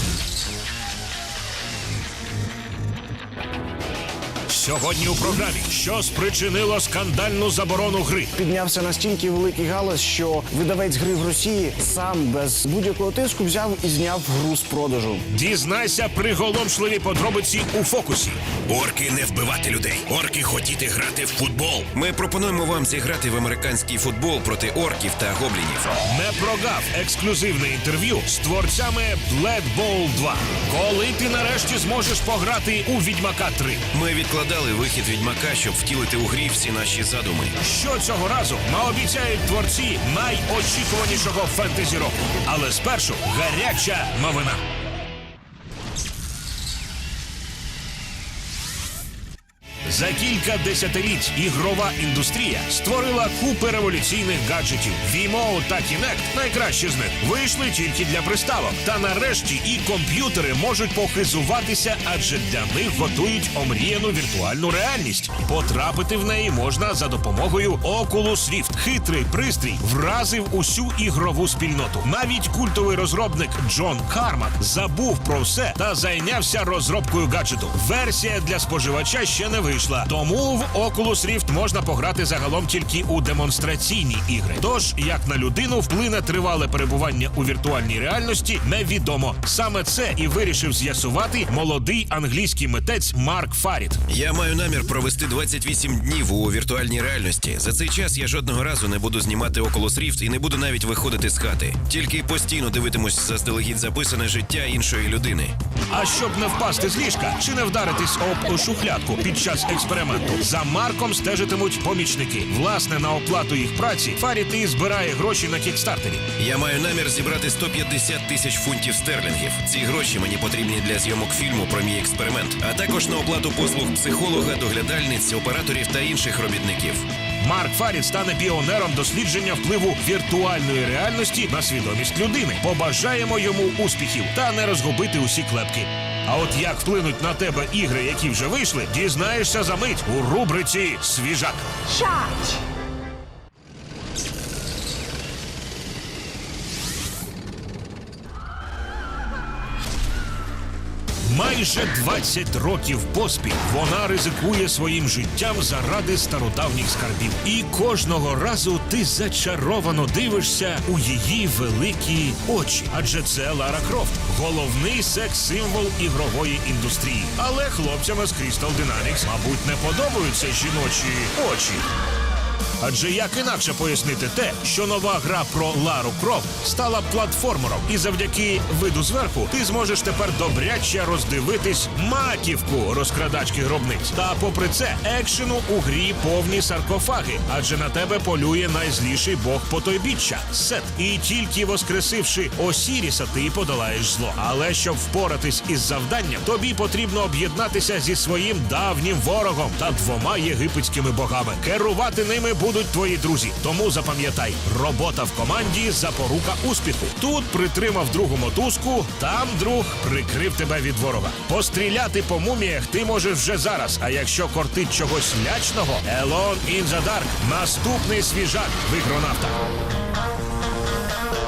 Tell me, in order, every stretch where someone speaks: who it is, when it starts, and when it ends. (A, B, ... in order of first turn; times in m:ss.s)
0:04.5-0:08.3 A
0:08.4-0:15.2 B
0:15.3-0:18.4 A
0:18.7-0:25.9 C
0:21.2-0:21.8 A
0:26.0-0:33.8 A
0:33.9-0:37.6 C
0:37.6-0:44.6 A
0:49.8-1:34.0 A
1:34.1-1:45.5 C
1:45.9-1:56.3 A
1:56.4-2:07.0 C
2:07.4-2:21.7 A
2:31.2-2:51.8 A
2:52.8-3:39.6 A